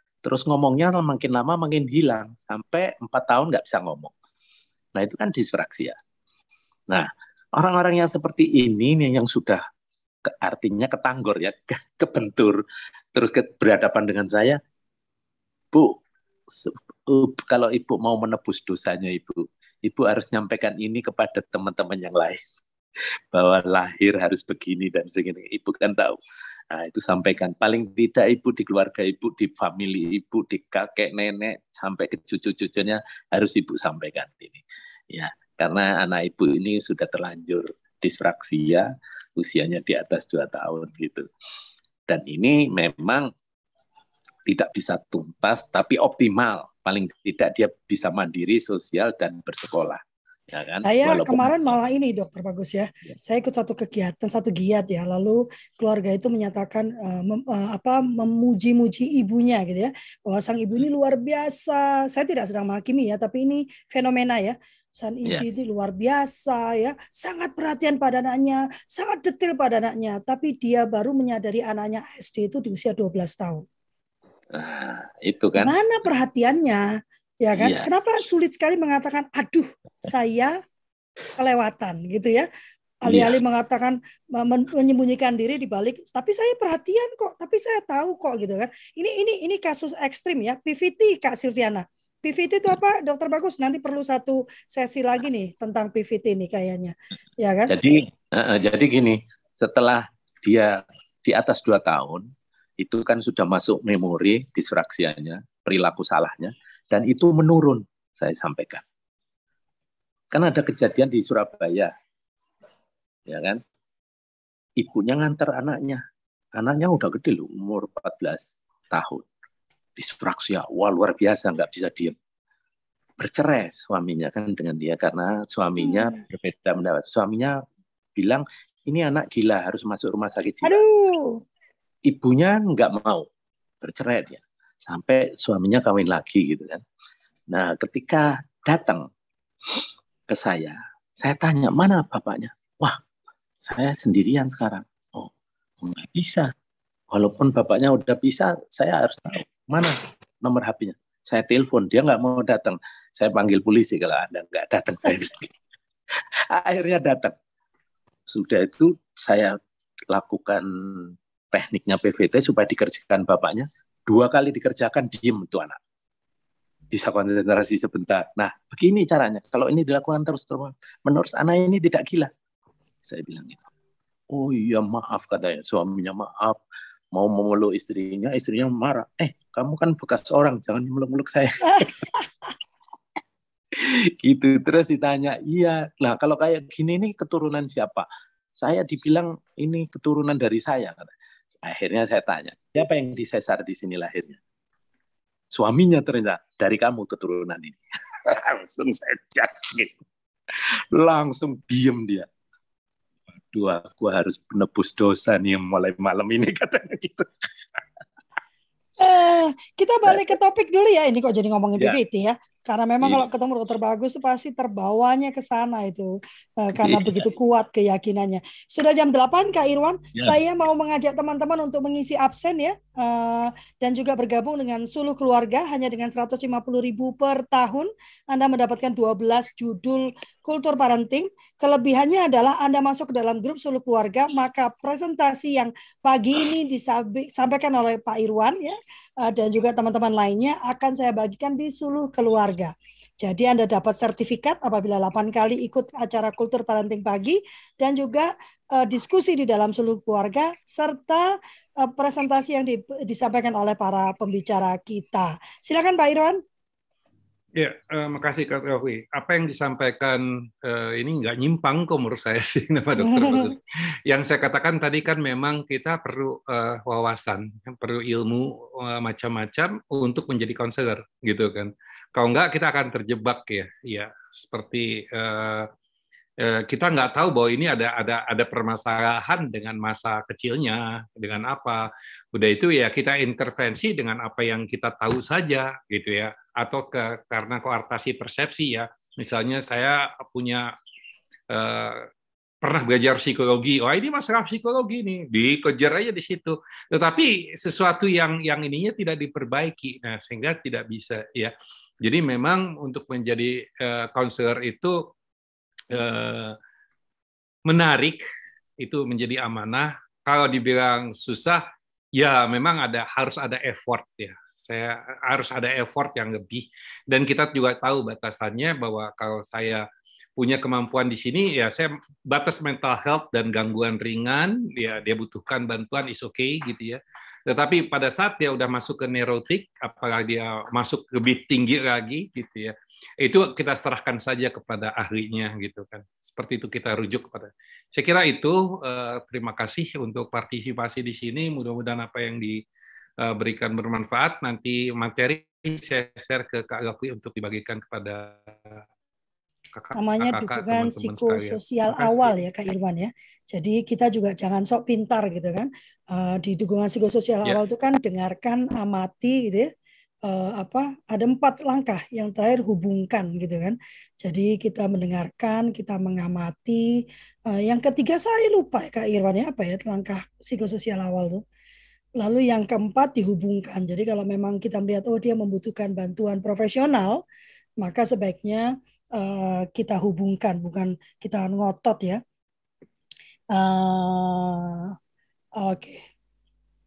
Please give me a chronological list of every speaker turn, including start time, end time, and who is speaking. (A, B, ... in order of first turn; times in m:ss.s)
0:00.2-0:04.1 A
0:05.0-0:06.0 A
0:06.9-0:09.6 A
0:10.2-0:12.6 A
0:13.1-0:14.6 A
0:15.7-0:16.0 A
0:16.5-0:22.4 A
0:23.3-0:26.2 A
0:26.7-0:41.3 A
0:42.1-0:43.3 A
0:44.5-0:51.5 A
0:50.8-1:13.6 B
1:14.5-1:15.7 A
1:15.6-1:16.9 B
1:17.4-1:20.5 B
1:17.6-1:17.9 A
1:21.4-1:22.5 B
1:23.0-1:37.7 B
1:23.1-1:23.4 A
1:37.7-1:42.3 A
1:42.8-1:48.8 A
1:50.3-1:51.9 A
1:53.3-1:53.6 A
1:54.8-1:56.0 A
1:56.6-1:59.3 A
2:00.0-2:02.2 A
2:03.2-2:07.6 A
2:05.8-2:06.2 B
2:08.2-2:10.8 A
2:10.6-2:11.4 B
2:12.1-2:13.3 A
2:13.8-2:16.8 A
2:17.5-2:19.1 A
2:19.7-2:23.0 A
2:23.6-2:26.5 A
2:27.1-2:35.5 A
2:36.5-2:37.4 A
2:38.3-2:39.6 A
2:40.1-2:45.8 A
2:46.9-2:52.3 A
2:53.0-2:53.6 A
2:54.3-2:56.6 A
2:57.1-3:02.0 A
3:01.7-3:02.2 B
3:03.8-3:14.4 A
3:15.5-3:20.0 A
3:20.5-3:22.3 A
3:23.5-3:27.8 A
3:29.0-4:16.4 B
3:36.8-3:37.3 A
4:17.6-4:35.7 C
4:23.0-4:23.5 B
4:36.4-4:50.7 C
4:51.5-4:52.1 C
4:52.6-5:05.0 C
5:05.9-5:06.6 C
5:07.7-5:08.2 C
5:08.8-5:11.6 C
5:12.2-5:19.9 C
5:20.4-5:42.6 C
5:43.2-5:48.8 C
5:49.7-5:52.4 C
5:50.0-5:59.7 B
6:00.3-6:06.9 B
6:07.5-6:11.4 B
6:12.2-6:17.2 B
6:17.8-6:22.2 B
6:23.5-6:25.0 B
6:25.6-6:26.0 B